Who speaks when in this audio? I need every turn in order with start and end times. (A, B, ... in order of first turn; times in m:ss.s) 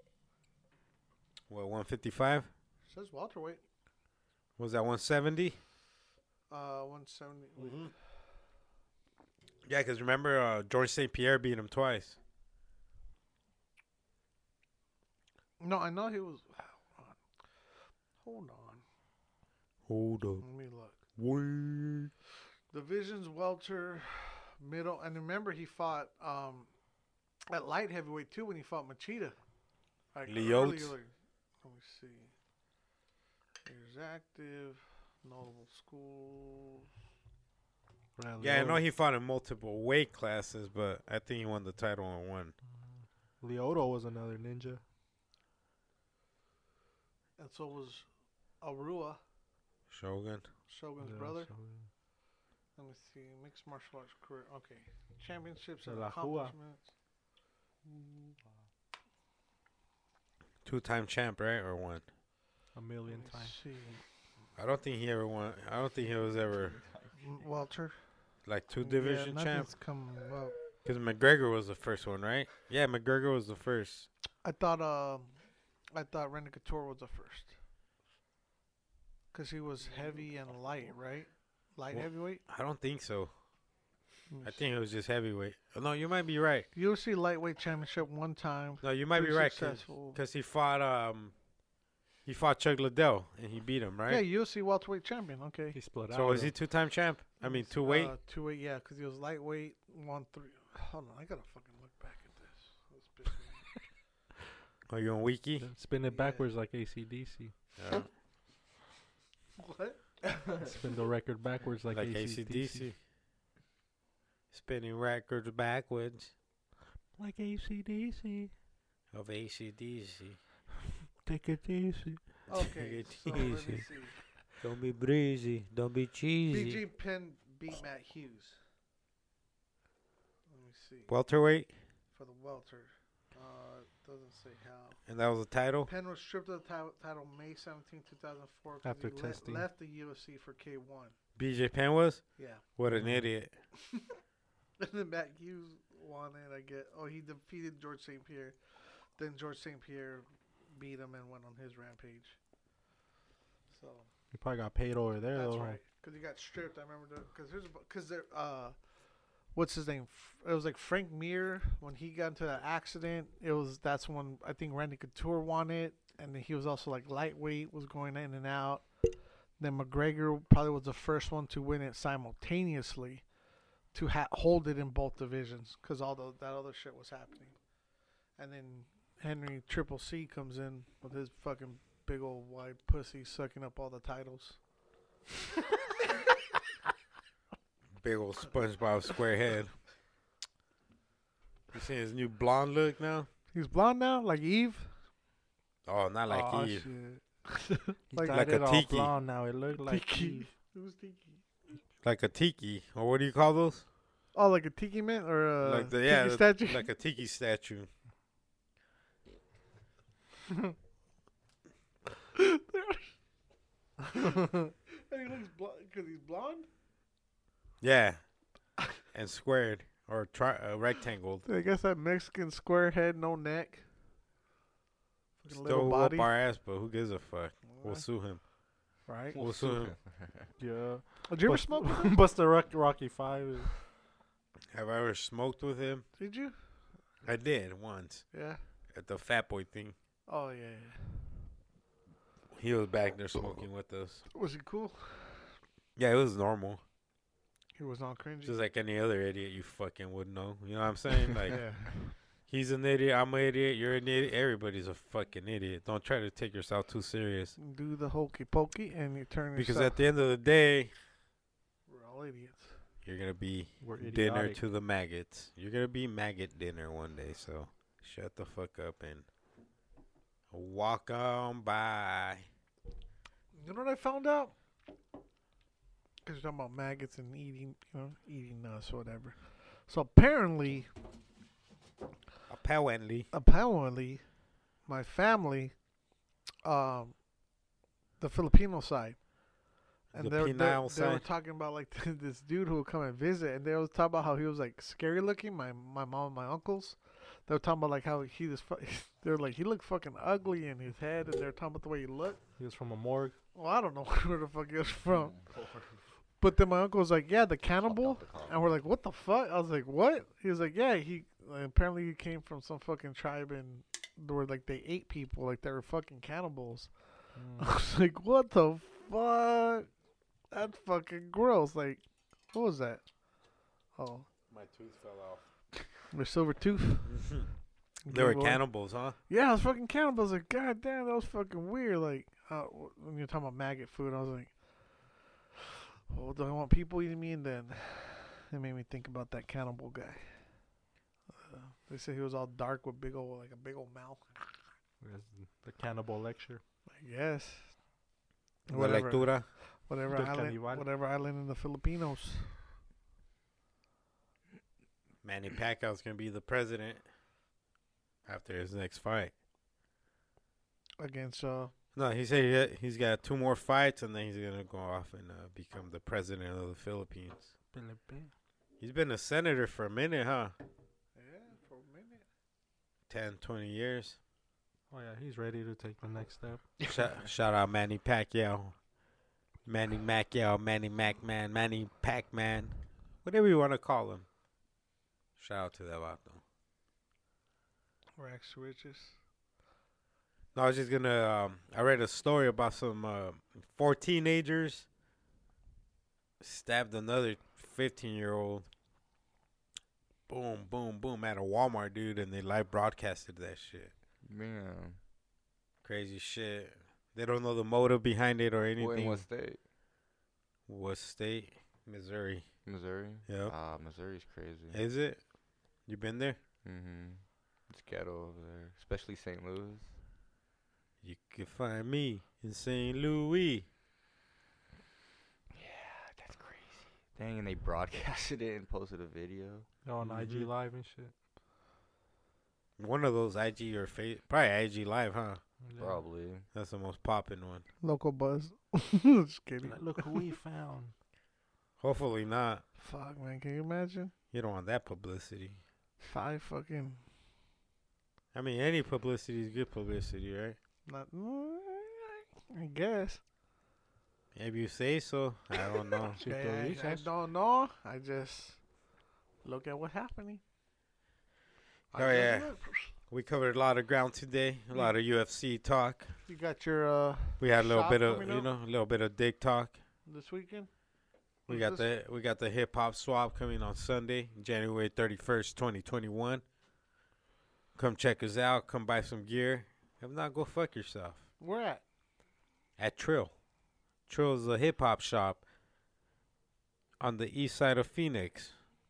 0:01.5-0:02.5 A
0:02.9-0:03.6 B
0:04.6-0:05.6 A
0:06.5-0:07.9 B
0:07.6-0:07.9 A
0:09.6-0:12.2 A
0:15.6-0:17.2 B
0:18.2-0:18.8 B
0:19.9-0:20.4 A
0:20.4-0:21.0 B
0:21.2-0:22.1 A
0:22.7-0:26.7 B
0:27.5-0:29.4 B
0:30.1-0:32.3 B
0:30.3-0:30.9 A
0:33.6-0:36.9 B
0:38.2-0:38.8 C
0:38.4-0:42.5 A
0:42.8-0:44.8 C
0:47.4-0:48.0 B
0:48.6-0:49.2 B
0:49.9-0:50.4 A
0:50.7-0:51.5 B
0:51.0-0:51.9 C
0:52.8-0:56.9 B
0:55.8-0:56.5 C
0:57.8-0:58.3 B
1:00.6-1:02.0 A
1:02.7-1:03.6 C
1:03.1-1:04.0 B
1:04.6-1:06.8 A
1:07.2-1:08.0 B
1:08.4-1:09.7 A
1:08.8-1:10.6 B
1:10.8-1:14.1 A
1:14.4-1:15.4 B
1:15.9-1:17.5 B
1:19.3-1:22.4 B
1:21.9-1:23.3 A
1:24.3-1:24.6 B
1:24.4-1:26.7 A
1:26.7-1:30.2 B
1:28.8-1:31.3 A
1:32.2-1:34.2 A
1:34.1-1:35.8 B
1:35.7-1:36.5 C
1:36.1-1:38.1 A
1:37.4-1:43.6 B
1:44.9-1:45.7 A
1:45.6-1:47.5 C
1:46.1-1:46.4 B
1:47.8-1:48.1 A
1:49.6-1:50.6 B
1:50.5-1:52.9 C
1:51.9-1:53.0 A
1:54.5-1:56.3 A
1:57.2-1:58.5 C
1:59.1-2:00.4 A
2:01.2-2:02.2 C
2:02.5-2:04.2 B
2:02.6-2:03.8 A
2:04.6-2:06.8 A
2:06.5-2:08.6 B
2:10.5-2:11.1 B
2:11.1-2:11.7 A
2:12.1-2:15.0 B
2:15.1-2:15.9 A
2:15.8-2:21.1 B
2:18.8-2:19.6 C
2:21.4-2:23.5 A
2:22.4-2:22.6 B
2:22.9-2:23.3 C
2:24.8-2:28.6 B
2:29.2-2:32.4 B
2:33.7-2:34.1 B
2:34.3-2:35.8 C
2:35.3-2:38.7 B
2:39.5-2:48.9 B
2:49.6-2:53.2 B
2:53.9-2:57.6 B
2:58.4-3:04.6 B
3:08.0-3:09.8 A
3:11.7-3:13.3 A
3:13.5-3:14.9 B
3:15.8-3:16.9 A
3:16.3-3:18.4 B
3:18.1-3:20.5 C
3:18.3-3:19.1 A
3:19.8-3:21.4 B
3:22.0-3:23.8 A
3:24.3-3:26.9 B
3:25.6-3:27.9 A
3:32.3-3:33.1 B
3:34.0-3:36.7 B
3:37.8-3:38.2 A
3:39.1-3:41.4 A
3:41.4-3:43.8 B
3:45.4-3:46.3 B
3:45.5-3:48.4 A
3:47.7-3:48.1 B
3:49.0-3:49.4 B
3:49.3-3:50.5 D
3:49.3-3:50.0 A
3:50.6-3:53.8 C
3:51.2-3:52.1 B
3:54.7-3:56.0 A
3:56.2-3:56.5 B
3:57.2-3:58.3 A
3:58.3-3:58.6 B
3:58.9-3:59.9 A
4:00.3-4:01.4 B
4:02.5-4:04.2 A
4:04.3-4:05.5 B
4:06.0-4:06.8 A
4:07.8-4:08.6 B
4:08.4-4:11.7 A
4:11.4-4:12.1 B
4:12.5-4:17.6 A
4:17.6-4:20.0 B
4:19.6-4:20.9 A
4:21.9-4:22.8 B
4:23.0-4:29.2 A
4:23.8-4:24.6 C
4:30.5-4:32.4 A
4:33.5-4:34.5 B
4:36.2-4:40.9 B
4:42.5-4:43.3 A
4:43.3-4:44.2 B
4:44.9-4:45.7 B
4:46.6-4:47.1 B
4:48.2-4:49.2 B
4:50.1-4:51.2 A
4:50.1-5:02.4 B
5:02.6-5:03.4 C
5:03.5-5:05.4 B
5:05.4-5:05.9 D
5:06.4-5:16.9 B
5:07.8-5:08.6 D
5:17.3-5:17.7 C
5:17.6-5:19.9 B
5:20.5-5:23.0 B
5:24.0-5:24.3 B
5:24.5-5:25.4 A
5:26.1-5:27.4 B
5:27.1-5:27.5 A
5:28.0-5:28.6 B
5:28.1-5:29.2 A
5:29.3-5:34.5 B
5:36.1-5:40.6 B
5:41.3-5:44.4 B
5:45.0-5:46.6 C
5:46.9-5:47.8 B
5:48.6-5:52.7 B
5:48.7-5:49.5 A
5:50.1-5:50.8 C
5:55.2-5:57.0 A
5:58.2-5:59.3 A
6:01.0-6:01.7 B
6:02.0-6:07.5 A
6:07.7-6:08.3 C
6:08.8-6:10.5 A
6:11.1-6:12.2 B
6:13.1-6:14.2 A
6:14.9-6:16.7 C
6:16.9-6:18.8 A
6:19.6-6:24.2 A
6:25.4-6:26.4 A
6:28.2-6:29.2 B
6:30.5-6:34.9 A
6:36.4-6:38.6 A
6:40.3-6:43.9 A
6:44.2-6:45.0 D
6:45.8-6:49.2 A
6:48.8-6:49.6 D
6:50.7-6:52.4 A
6:52.6-6:54.8 D
6:53.3-6:53.5 A
6:54.7-6:55.2 A
6:55.9-6:56.4 A
6:56.6-6:59.9 D
7:01.0-7:03.6 A
7:05.5-7:09.7 D
7:09.8-7:11.1 C
7:10.0-7:10.5 A
7:12.8-7:15.4 A
7:15.6-7:16.0 C
7:15.8-7:16.4 D
7:16.5-7:17.6 A
7:17.8-7:20.2 B
7:19.6-7:20.9 C
7:21.8-7:22.6 A
7:22.8-7:24.1 B
7:24.3-7:25.6 A
7:26.0-7:27.0 B
7:28.3-7:30.6 A
7:30.9-7:33.2 B
7:34.3-7:36.2 A
7:36.1-7:37.1 C
7:36.2-7:38.6 B
7:39.4-7:40.4 B
7:41.9-7:42.9 B
7:42.0-7:42.5 A
7:43.1-7:46.1 A
7:46.3-7:48.5 B
7:47.4-7:49.8 A
7:50.1-7:50.7 B
7:51.5-7:56.4 A
7:51.5-7:51.9 B
7:57.8-8:01.2 A
8:01.4-8:01.8 B
8:02.8-8:03.3 A
8:04.1-8:05.4 A
8:07.0-8:08.5 A